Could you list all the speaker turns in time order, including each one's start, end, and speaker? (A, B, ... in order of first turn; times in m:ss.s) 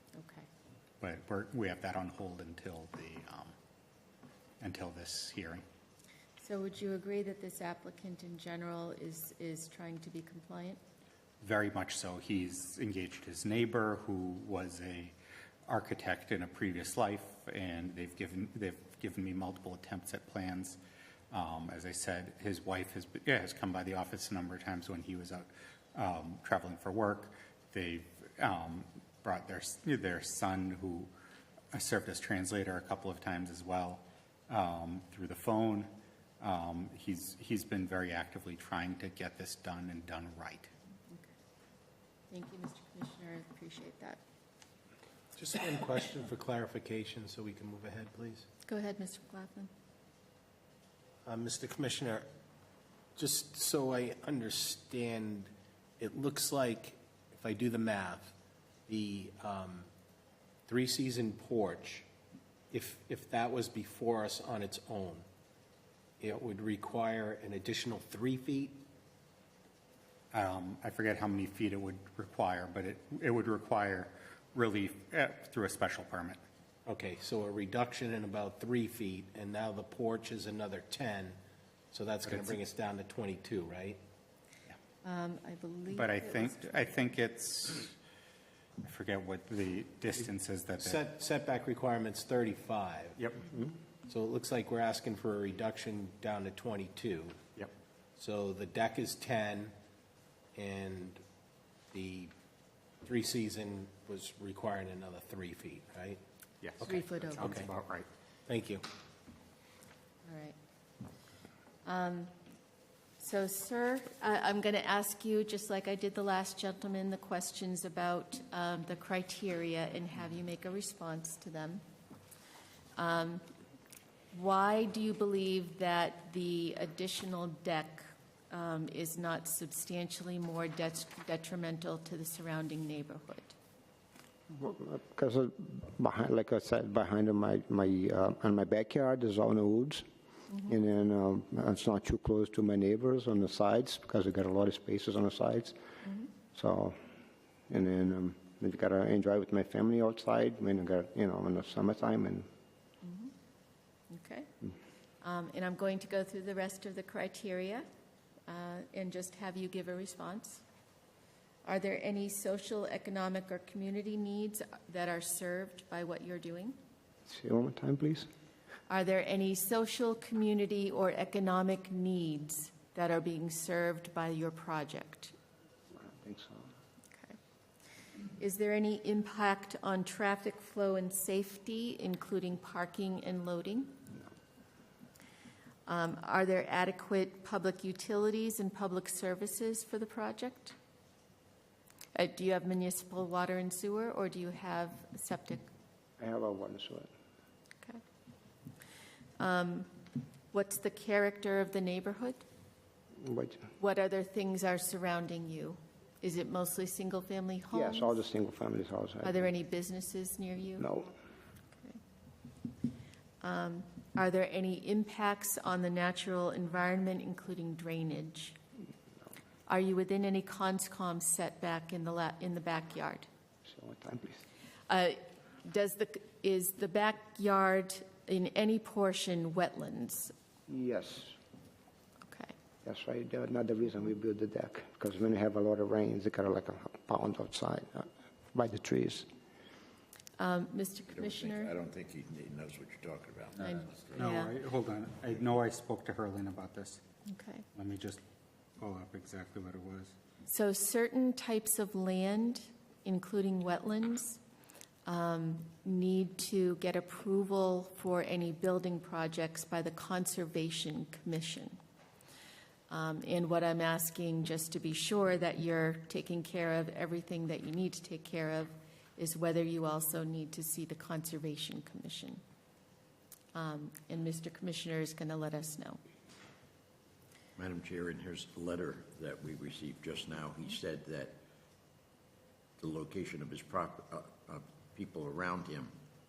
0:00.2-0:00.5 A
0:01.0-0:03.5 B
0:04.6-0:05.6 B
0:06.4-0:10.8 A
0:11.4-0:15.1 B
0:15.7-0:20.8 B
0:21.3-0:31.1 B
0:31.7-0:35.9 B
0:36.4-0:40.7 B
0:42.3-0:44.2 A
0:45.3-0:48.4 C
0:48.6-0:49.7 A
0:51.2-0:52.2 C
0:53.2-0:58.3 C
0:58.9-0:59.9 C
1:00.6-1:02.1 C
1:02.7-1:05.2 C
1:06.2-1:08.8 C
1:10.3-1:16.4 B
1:16.8-1:21.4 C
1:21.9-1:24.0 C
1:22.3-1:22.5 B
1:25.0-1:26.9 A
1:25.9-1:28.0 B
1:28.8-1:31.0 B
1:30.8-1:33.2 C
1:33.2-1:33.7 B
1:34.1-1:37.4 C
1:38.2-1:39.7 C
1:40.6-1:41.2 C
1:41.9-1:42.3 C
1:43.0-1:46.2 C
1:46.6-1:48.0 B
1:46.8-1:47.7 C
1:46.8-1:47.6 A
1:48.5-1:48.8 C
1:50.2-1:50.5 A
1:51.8-1:52.3 A
1:53.2-2:01.8 A
2:03.0-2:03.4 A
2:04.3-2:13.5 A
2:14.5-2:20.0 D
2:20.5-2:20.7 A
2:20.7-2:25.8 D
2:26.0-2:26.3 A
2:26.5-2:27.0 D
2:27.7-2:32.5 D
2:33.0-2:33.3 A
2:34.1-2:34.5 A
2:35.2-2:37.8 A
2:38.5-2:40.6 A
2:41.6-2:46.8 A
2:47.3-2:48.2 D
2:48.9-2:55.3 A
2:55.9-2:56.7 D
2:58.4-3:04.0 A
3:05.9-3:10.8 A
3:12.1-3:15.7 A
3:16.2-3:17.1 D
3:19.4-3:19.9 A
3:20.5-3:22.4 A
3:23.2-3:23.7 D
3:23.8-3:28.1 A
3:27.7-3:29.5 D
3:29.2-3:31.0 A
3:30.8-3:31.1 D
3:33.4-3:38.6 A
3:39.7-3:43.3 A
3:43.6-3:44.4 D
3:44.9-3:50.3 A
3:50.7-3:51.3 D
3:52.2-3:52.5 A
3:52.8-3:59.2 D
4:00.4-4:01.7 A
4:01.1-4:04.1 E
4:03.6-4:04.5 A
4:04.1-4:07.0 B
4:07.3-4:07.6 A
4:07.7-4:08.2 B
4:08.8-4:10.1 B
4:10.5-4:14.4 A
4:15.0-4:21.8 A
4:22.9-4:32.4 A
4:33.5-4:36.0 A
4:37.6-4:41.4 E
4:42.8-4:45.9 E